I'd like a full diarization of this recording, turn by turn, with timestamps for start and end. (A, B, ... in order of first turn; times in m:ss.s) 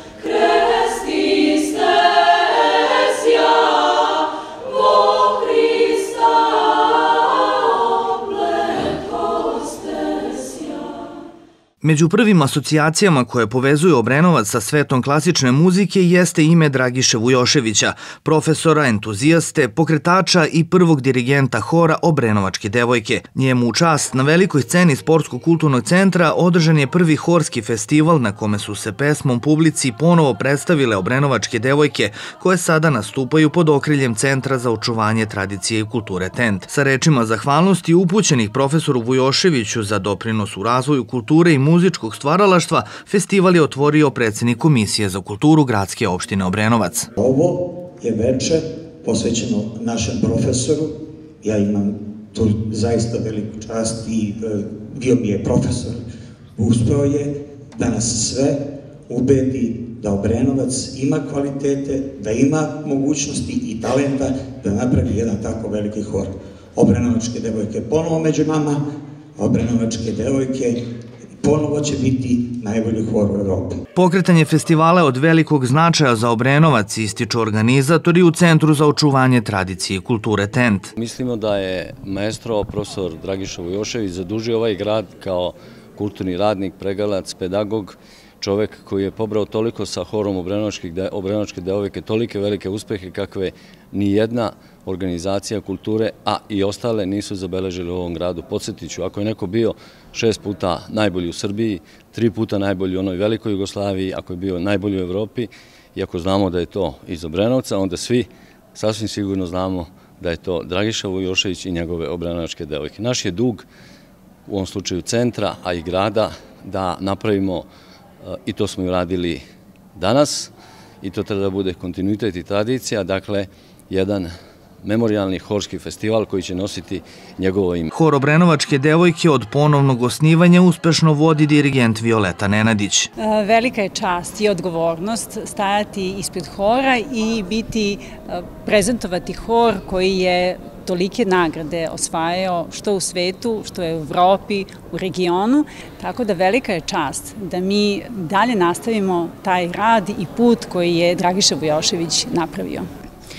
0:00.7-0:01.7 A
0:11.8-0:47.1 B
0:47.2-0:50.9 C
0:51.4-0:56.0 C
0:56.6-0:58.6 C
0:59.1-1:08.8 C
1:09.4-1:10.8 C
1:11.4-1:13.8 C
1:13.9-1:20.9 B
1:21.0-1:53.7 D
1:54.4-1:57.7 D
1:58.2-1:59.4 D
1:59.9-2:04.3 D
2:04.8-2:07.9 D
2:07.9-2:13.1 B
2:13.2-2:32.8 A